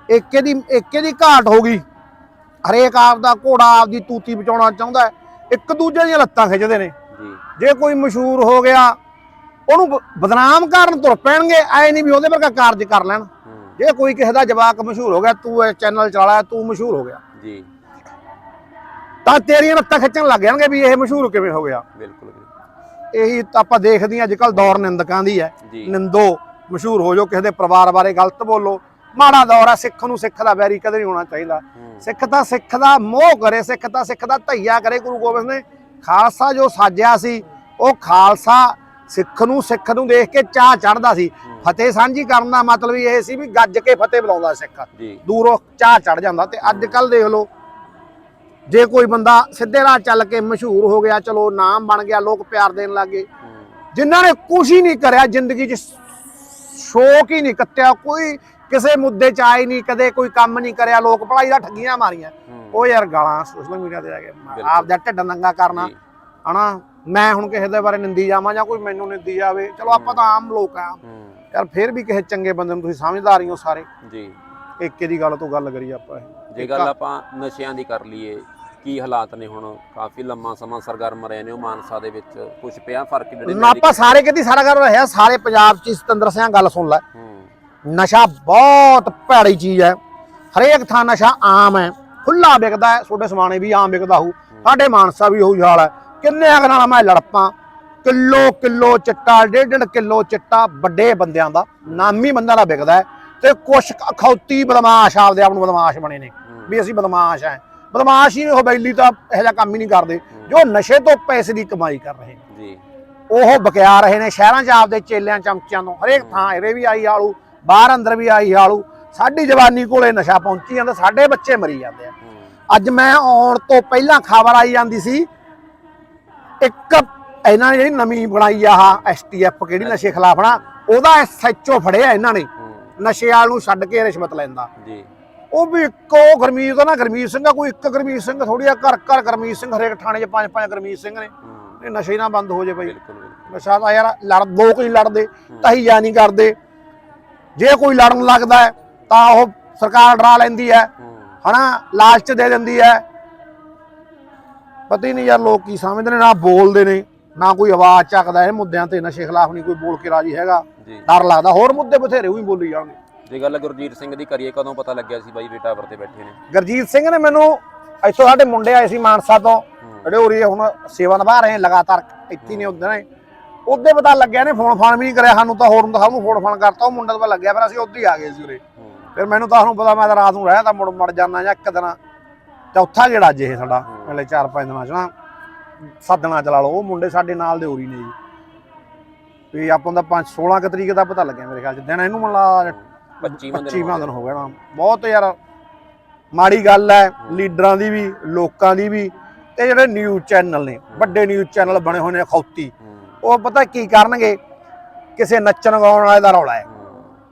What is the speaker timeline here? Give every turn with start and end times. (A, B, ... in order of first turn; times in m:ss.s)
0:00.1-0:01.8 A
0:02.6-0:06.9 A
0:07.1-0:07.4 B
0:07.6-0:09.0 A
0:09.7-0:17.2 A
0:13.4-0:13.8 B
0:17.4-0:17.7 B
0:19.2-0:21.8 A
0:22.0-0:22.5 B
0:23.1-0:47.5 A
0:25.6-0:25.9 B
0:31.8-0:32.0 B
0:45.0-0:45.2 B
0:46.6-0:47.0 B
0:48.7-0:53.3 A
0:53.9-1:05.9 A
1:02.5-1:02.8 B
1:04.5-1:04.9 B
1:05.7-1:06.0 B
1:06.4-1:11.0 A
1:09.9-1:10.2 B
1:11.0-1:11.4 B
1:11.5-1:13.9 A
1:14.0-1:14.4 B
1:14.8-1:16.9 A
1:16.5-1:24.0 B
1:23.5-1:27.0 A
1:27.2-1:27.5 B
1:27.8-1:30.0 A
1:30.5-1:37.5 A
1:38.0-1:52.4 A
1:41.9-1:42.1 B
1:46.5-1:46.7 B
1:52.5-1:52.8 B
1:53.3-2:02.1 A
1:56.1-1:56.5 B
2:02.7-2:05.3 A
2:06.6-2:14.7 A
2:09.8-2:10.1 B
2:12.6-2:12.9 B
2:14.8-2:15.1 B
2:15.5-2:22.9 A
2:21.4-2:21.8 B
2:22.8-2:23.5 B
2:23.5-2:26.6 A
2:27.6-2:30.9 A
2:31.0-2:31.3 B
2:31.4-2:33.0 A
2:34.9-2:43.0 A
2:40.8-2:41.1 B
2:43.3-2:46.4 B
2:46.5-2:53.0 A
2:52.4-2:52.7 B
2:53.7-2:58.6 A
2:58.8-2:59.1 B
2:59.2-3:02.0 A
3:02.7-3:05.1 A
3:06.0-3:08.1 A
3:09.5-3:15.4 A
3:12.8-3:14.2 B
3:16.3-3:22.7 A
3:17.2-3:17.5 B
3:20.9-3:21.2 B
3:23.2-3:24.4 A
3:25.2-3:26.6 A
3:26.7-3:27.2 B